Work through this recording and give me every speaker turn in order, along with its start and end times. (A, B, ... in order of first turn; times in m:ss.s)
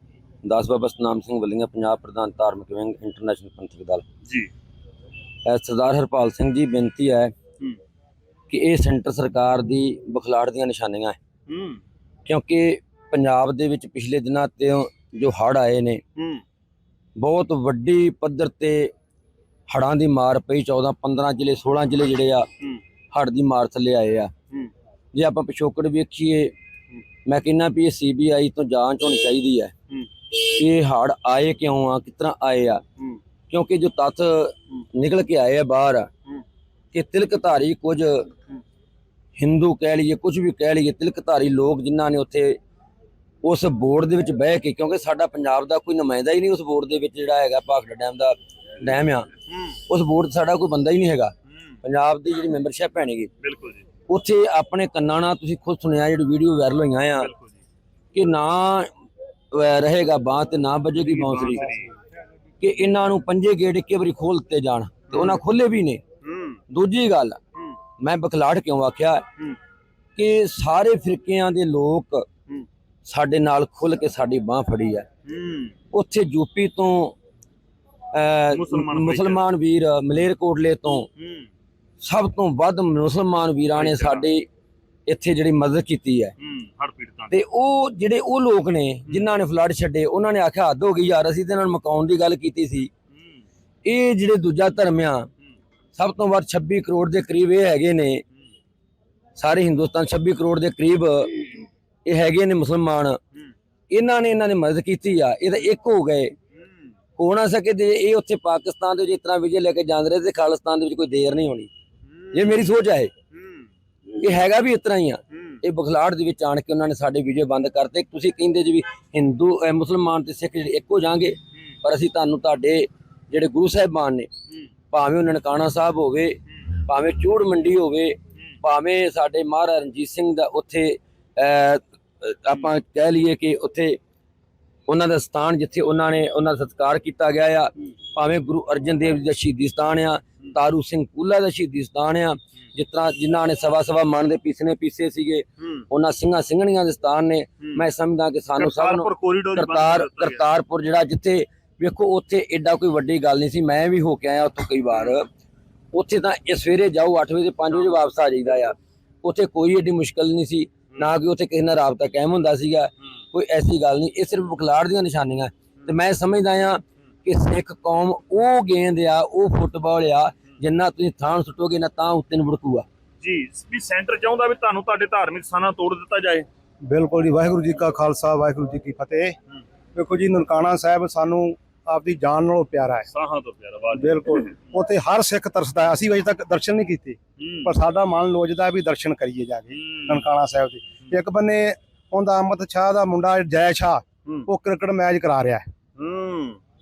0:00.4-0:04.0 A
0:04.2-0:04.5 B
0:05.4-0:07.3 A
0:08.5-0:11.2 A
0:11.5-0:11.8 B
0:12.2-0:16.0 A
0:16.2-0:16.4 B
0:17.2-0:18.9 A
0:19.7-0:22.5 A
0:23.1-0:24.3 A
0:25.1-0:26.5 A
0:27.3-0:29.7 A
0:30.3-0:32.8 A
0:33.5-0:36.1 A
0:36.9-0:38.3 A
0:39.4-0:42.6 A
0:43.4-0:49.3 A
0:49.9-0:53.3 A
0:53.4-0:53.8 B
0:54.1-0:57.3 A
0:57.2-0:57.5 B
0:58.1-0:58.9 A
0:59.5-1:01.7 A
1:01.0-1:01.8 B
1:02.6-1:06.0 A
1:05.1-1:05.4 B
1:06.2-1:06.6 B
1:06.7-1:07.4 A
1:08.0-1:09.2 A
1:10.2-1:12.2 A
1:13.1-1:15.1 A
1:15.2-1:15.8 B
1:15.9-1:17.1 A
1:18.1-1:21.1 A
1:18.5-1:19.4 B
1:21.2-1:21.5 B
1:22.0-1:24.4 A
1:23.8-1:24.2 B
1:25.1-1:26.3 A
1:26.4-1:27.4 B
1:27.3-1:32.9 A
1:29.1-1:29.4 B
1:33.1-1:33.4 B
1:33.8-1:35.3 A
1:36.0-1:38.2 A
1:39.4-1:43.2 A
1:43.9-1:46.3 A
1:46.6-1:46.8 B
1:47.2-1:51.7 A
1:52.1-1:52.5 B
1:52.3-1:53.1 A
1:53.3-1:53.6 B
1:54.1-2:04.3 A
1:55.3-1:55.6 B
2:04.9-2:14.0 A
2:14.9-2:35.3 A
2:28.6-2:30.4 B
2:35.9-2:52.8 A
2:53.2-2:56.4 B
2:56.8-2:59.4 C
2:59.9-3:03.1 C
3:03.1-3:04.5 B
3:03.9-3:15.7 C
3:07.4-3:07.8 B
3:09.7-3:10.3 B
3:16.0-3:16.6 B